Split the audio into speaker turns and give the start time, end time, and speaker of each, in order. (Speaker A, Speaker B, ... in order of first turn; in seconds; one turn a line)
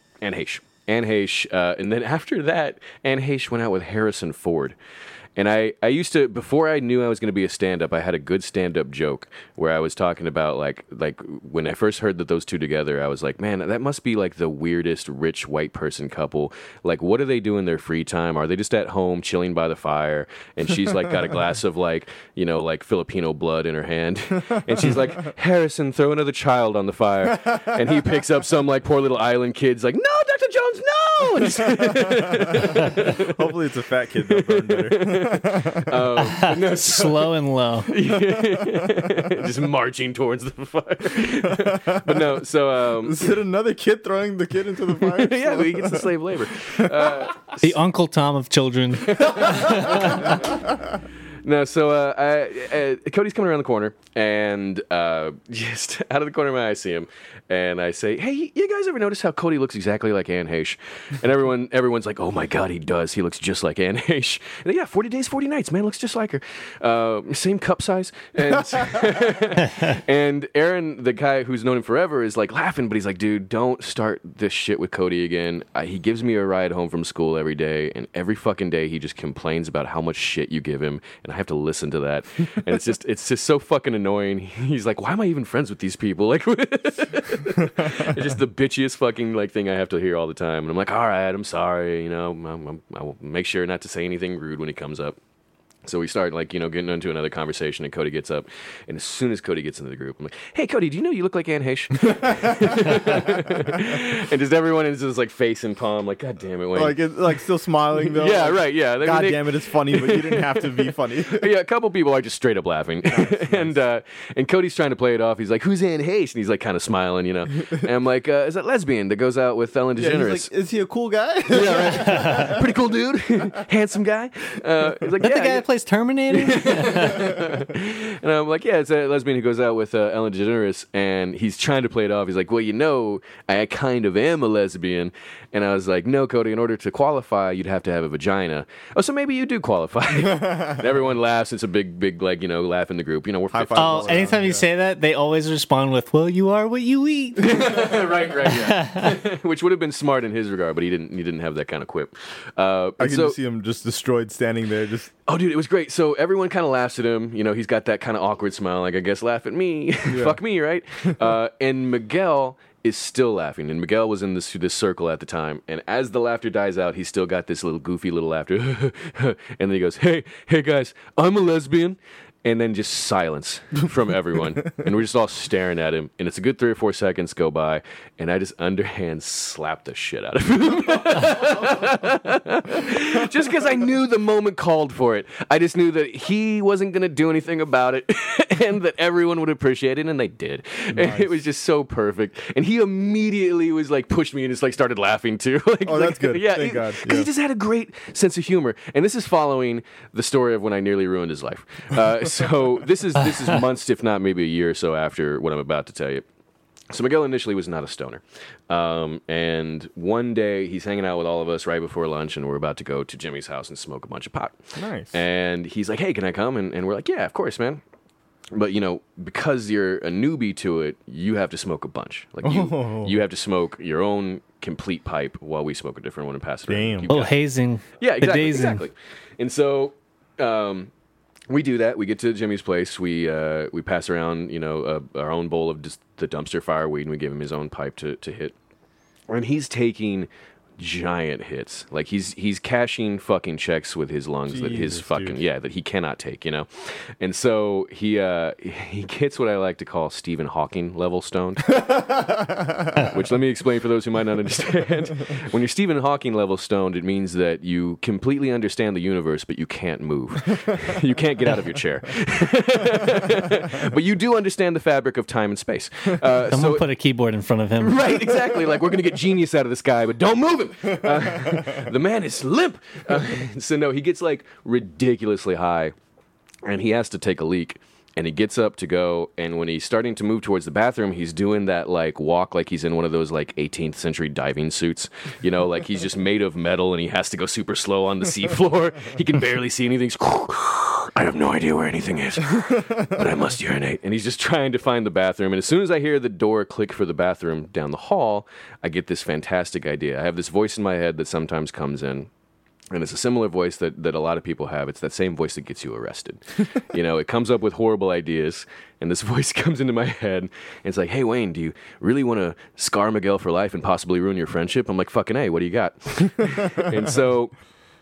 Speaker A: 0.2-4.8
Speaker A: 5.4-33.5
Speaker B: 24.8-25.1
Speaker B: 27.3-28.2
Speaker B: 31.4-36.0
Speaker A: 34.3-37.3
Speaker C: 36.2-37.9
Speaker A: 37.9-43.3
Speaker B: 38.0-39.3
Speaker B: 41.4-42.4
Speaker B: 43.0-46.2
Speaker A: 44.9-47.7
Speaker B: 46.8-47.3
Speaker C: 47.6-50.5
Speaker A: 49.0-50.6
Speaker B: 50.2-50.5
Speaker A: 51.4-95.2
Speaker B: 68.8-69.1
Speaker A: 95.8-107.0
Speaker B: 102.1-103.3
Speaker B: 106.7-111.5
Speaker A: 107.9-120.5
Speaker B: 113.1-113.8
Speaker B: 119.9-122.7
Speaker A: 121.5-125.6
Speaker C: 121.7-122.6
Speaker C: 125.2-127.4
Speaker A: 126.3-144.3
Speaker B: 140.3-140.6
Speaker B: 143.5-144.7
Speaker C: 143.8-147.7
Speaker A: 147.4-153.3
Speaker C: 148.4-149.2
Speaker B: 153.0-155.1
Speaker A: 155.3-206.2
Speaker B: 160.1-160.4
Speaker B: 181.3-182.1
Speaker B: 190.9-191.3
Speaker B: 195.8-197.3
Speaker A: 206.9-214.6
Speaker B: 214.8-215.2
Speaker A: 215.1-217.8
Speaker A: 218.5-227.3
Speaker B: 222.4-223.2
Speaker B: 226.7-227.1
Speaker C: 227.1-228.8
Speaker A: 228.0-230.9
Speaker A: 231.5-238.5
Speaker A: 239.3-251.8
Speaker B: 244.5-245.4
Speaker B: 251.7-253.2
Speaker A: 252.9-266.8
Speaker C: 266.5-268.2
Speaker A: 267.8-275.9
Speaker B: 271.0-271.8
Speaker A: 276.6-302.3
Speaker A: 302.9-317.5